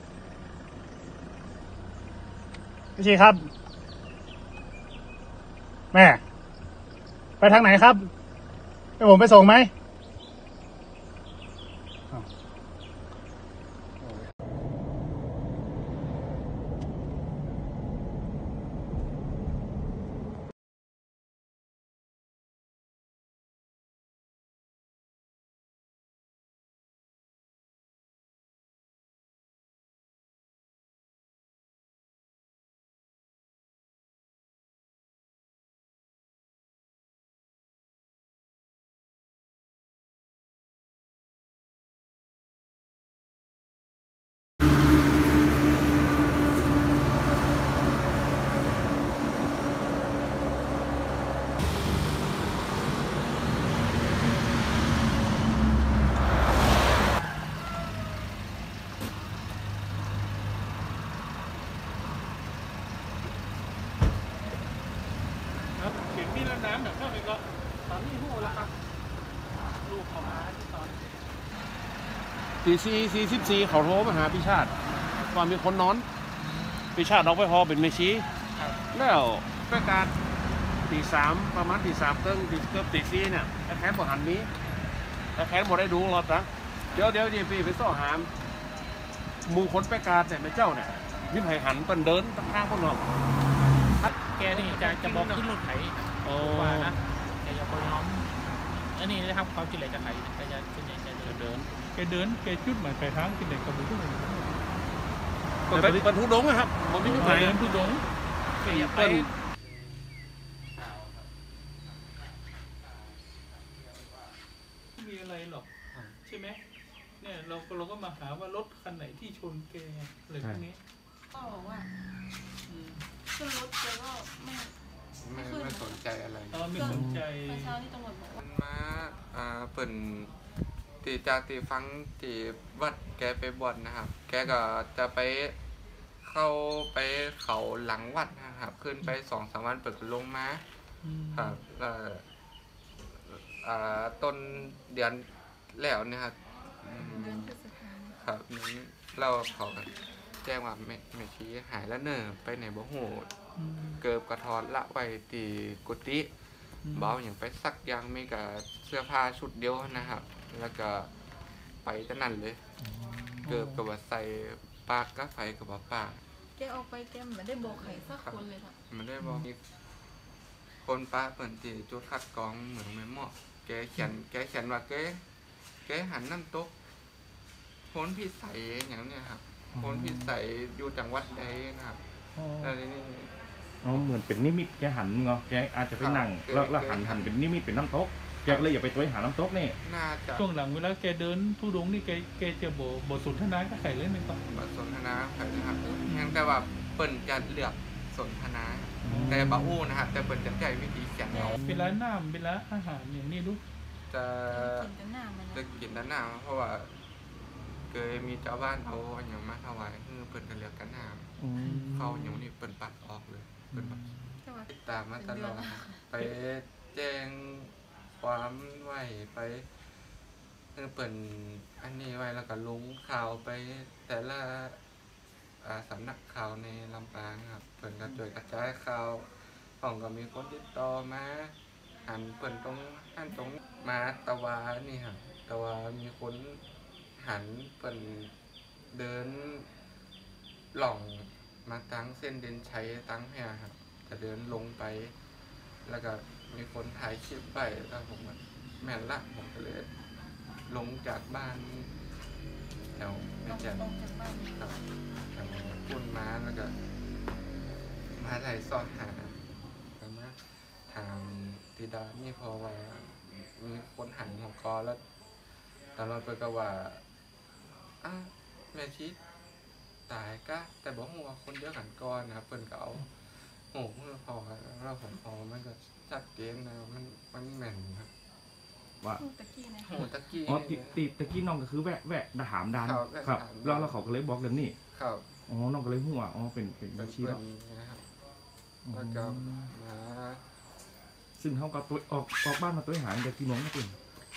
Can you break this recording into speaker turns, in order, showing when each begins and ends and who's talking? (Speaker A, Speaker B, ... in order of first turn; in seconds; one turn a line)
Speaker A: 3.0-3.5
Speaker A: 5.9-6.2
Speaker A: 7.4-8.1
Speaker A: 9.0-9.7
Speaker B: 65.8-68.7
Speaker C: 68.3-68.7
Speaker B: 69.8-70.9
Speaker D: 72.6-76.1
Speaker D: 77.0-78.3
Speaker D: 78.9-80.1
Speaker D: 80.9-84.5
Speaker D: 85.4-88.3
Speaker D: 89.5-93.0
Speaker D: 94.0-95.5
Speaker C: 94.0-98.3
Speaker D: 96.3-97.0
Speaker C: 98.9-101.7
Speaker B: 101.9-104.6
Speaker B: 105.7-106.1
Speaker D: 105.7-107.7
Speaker B: 107.0-108.1
Speaker C: 107.0-108.0
Speaker C: 108.6-109.3
Speaker D: 108.6-109.3
Speaker B: 115.0-115.7
Speaker E: 115.9-116.2
Speaker B: 116.2-116.6
Speaker B: 117.2-120.8
Speaker F: 121.3-121.9
Speaker B: 122.7-123.0
Speaker F: 123.3-124.7
Speaker E: 125.2-127.0
Speaker F: 125.2-126.0
Speaker B: 126.5-127.8
Speaker G: 126.8-127.2
Speaker F: 126.8-128.4
Speaker E: 128.3-130.3
Speaker E: 131.0-135.6
Speaker E: 136.2-140.6
Speaker B: 141.0-141.6
Speaker E: 141.3-142.2
Speaker E: 143.1-147.6
Speaker F: 147.0-148.2
Speaker E: 148.1-153.3
Speaker B: 153.6-154.0
Speaker E: 154.0-156.3
Speaker B: 156.8-157.2
Speaker E: 156.9-161.1
Speaker E: 161.8-162.6
Speaker G: 163.0-163.4
Speaker B: 163.4-163.8
Speaker E: 163.4-166.2
Speaker F: 166.6-168.8
Speaker E: 167.7-169.6
Speaker E: 170.8-175.2
Speaker E: 175.8-176.7
Speaker E: 177.9-182.0
Speaker G: 179.7-180.3
Speaker B: 182.3-182.7
Speaker E: 182.6-183.3
Speaker G: 183.8-189.8
Speaker E: 185.9-187.3
Speaker E: 189.8-190.4
Speaker B: 190.3-194.4
Speaker E: 194.5-201.6
Speaker G: 199.0-199.8
Speaker B: 199.0-199.6
Speaker B: 201.3-203.6
Speaker G: 201.4-202.0
Speaker E: 204.1-204.9
Speaker F: 204.5-205.7
Speaker E: 205.5-206.9
Speaker E: 207.9-214.0
Speaker G: 211.4-212.2
Speaker B: 211.6-212.3
Speaker B: 213.7-214.4
Speaker F: 214.4-216.0
Speaker E: 214.7-219.7
Speaker E: 220.7-224.8
Speaker E: 225.6-231.5
Speaker E: 232.1-236.6
Speaker E: 237.2-238.3
Speaker E: 238.9-239.7
Speaker E: 240.7-245.1
Speaker E: 245.8-249.9
Speaker E: 250.7-251.9
Speaker E: 252.9-253.9
Speaker F: 253.4-254.8
Speaker E: 254.5-254.8
Speaker E: 255.3-256.7
Speaker E: 258.1-259.4
Speaker E: 260.0-265.0
Speaker E: 265.9-267.0
Speaker E: 268.0-269.2
Speaker E: 270.1-273.1
Speaker E: 273.7-278.1
Speaker F: 279.2-280.0
Speaker E: 279.8-281.0
Speaker G: 280.4-284.8
Speaker E: 282.8-284.0
Speaker E: 284.9-285.3
Speaker G: 285.5-287.4
Speaker E: 287.0-288.1
Speaker G: 288.9-289.7
Speaker E: 288.9-290.4
Speaker G: 291.4-294.0